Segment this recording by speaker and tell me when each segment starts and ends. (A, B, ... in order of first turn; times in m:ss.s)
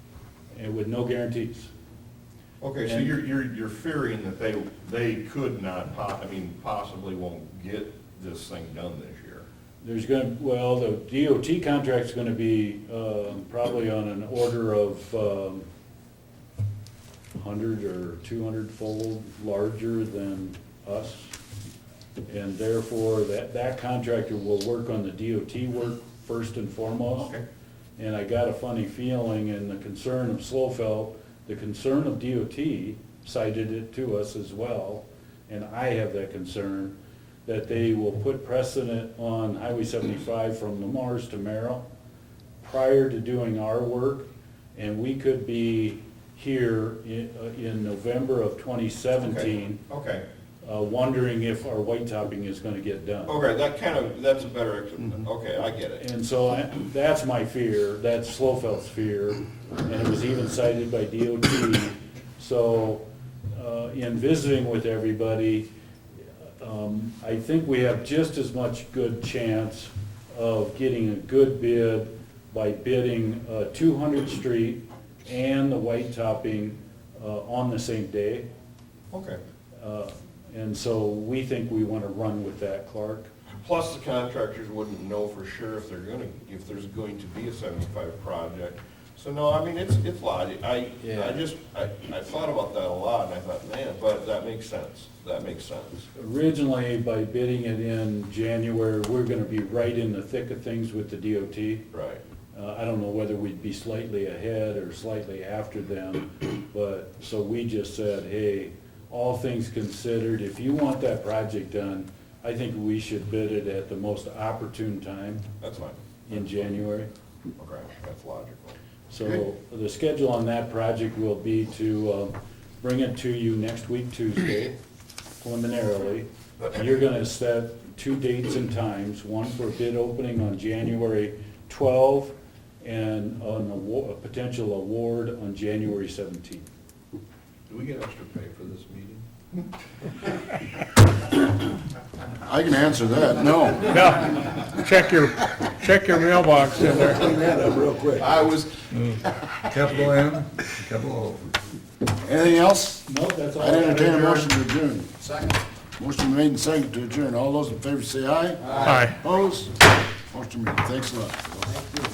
0:00.5-0:01.7 A
0:02.6-0:09.5 B
0:02.8-0:03.1 A
0:09.8-0:15.7 A
0:17.3-0:21.4 A
0:22.3-0:27.3 A
0:28.0-0:37.0 A
0:37.5-0:41.8 A
0:42.6-0:49.8 A
0:49.2-0:50.2 B
0:50.6-0:53.4 A
0:53.3-0:56.0 B
0:56.0-1:03.0 A
1:03.5-1:05.7 A
1:06.4-1:18.5 A
1:19.1-1:19.4 B
1:19.8-1:23.3 A
1:23.5-1:36.1 B
1:31.0-1:31.4 A
1:36.1-1:41.9 A
1:41.9-1:42.2 B
1:42.5-1:55.4 A
1:55.6-1:56.7 B
1:56.3-1:57.1 A
1:57.6-1:58.8 B
1:59.1-2:04.8 A
2:05.4-2:16.7 A
2:17.7-2:19.2 B
2:22.4-2:24.5 C
2:24.6-2:27.3 D
2:27.1-2:28.3 C
2:28.2-2:28.9 B
2:29.6-2:31.4 C
2:29.7-2:31.3 D
2:32.1-2:33.1 C
2:33.0-2:34.5 A
2:33.6-2:41.9 C
2:38.8-2:39.2 D